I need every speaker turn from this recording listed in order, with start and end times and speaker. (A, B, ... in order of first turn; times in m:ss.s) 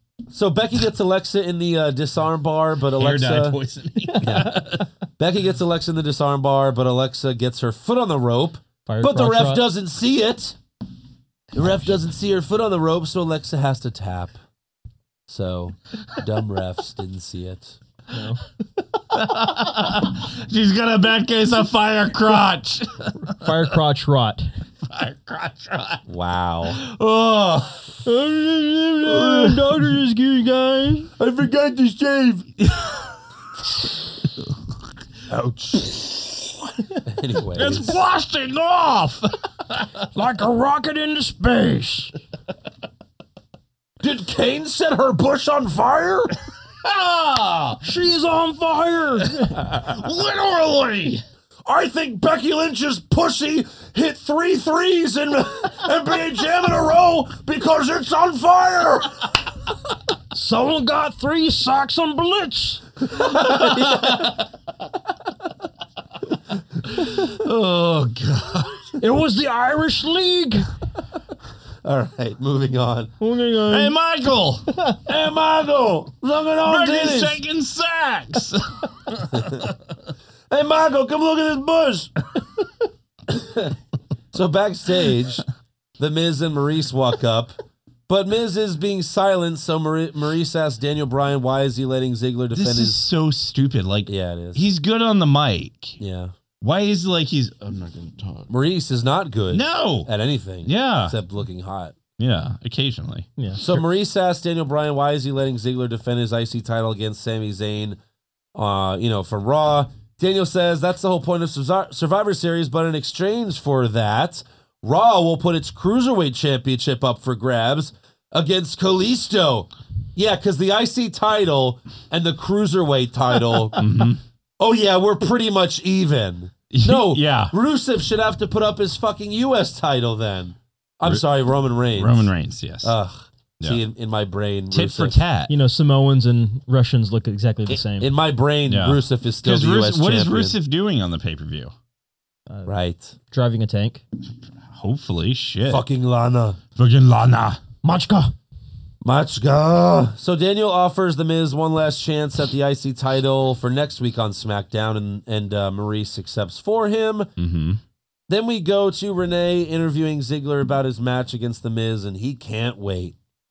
0:00.3-0:03.6 A
0:02.9-0:04.9 B
0:04.2-0:10.6 A
0:08.9-0:09.6 C
0:11.5-0:14.3 A
0:15.3-0:17.8 A
0:18.1-0:18.4 C
0:19.1-0:23.6 B
0:23.4-0:24.5 C
0:24.8-0:26.0 B
0:26.1-0:26.8 A
0:26.7-0:27.9 B
0:28.0-0:31.1 C
0:29.1-0:29.7 B
0:31.2-0:32.4 A
0:32.6-0:33.2 B
0:35.3-0:36.0 A
0:37.0-0:38.0 A
0:37.5-0:40.0 B
0:40.1-0:42.1 C
0:44.0-0:46.3 A
0:46.8-0:47.8 B
0:47.8-0:49.6 C
0:49.3-0:51.2 B
0:51.6-0:59.3 A
1:00.3-1:02.8 C
1:03.1-1:04.3 A
1:03.3-1:04.4 B
1:07.1-1:08.7 B
1:07.2-1:08.2 A
1:09.0-1:10.7 C
1:11.8-1:13.1 A
1:13.2-1:13.9 C
1:13.6-1:14.8 B
1:14.7-1:15.0 C
1:15.0-1:17.4 A
1:16.6-1:19.9 B
1:19.3-1:19.7 A
1:20.5-1:22.2 A
1:23.3-1:23.8 A
1:24.3-1:25.4 A
1:26.0-1:33.0 A
1:32.5-1:36.0 B
1:34.1-1:34.6 A
1:36.0-1:36.3 A
1:36.6-1:38.5 B
1:38.5-1:41.9 A
1:39.5-1:40.1 B
1:40.6-1:41.2 B
1:42.2-1:43.8 B
1:43.4-1:43.6 C
1:43.6-1:48.0 A
1:48.5-2:03.8 A
2:03.8-2:04.2 B
2:04.6-2:15.2 A
2:06.7-2:07.5 B
2:11.9-2:12.9 B
2:14.7-2:15.5 B
2:15.5-2:18.1 C
2:17.7-2:20.6 A
2:18.7-2:21.7 B
2:22.5-2:22.7 C
2:22.6-2:23.1 A
2:23.3-2:24.0 C
2:24.7-2:25.8 B
2:25.7-2:26.6 A
2:26.8-2:27.6 B
2:27.8-2:28.3 C
2:29.0-2:37.3 A
2:37.4-2:37.8 B
2:38.3-2:43.2 A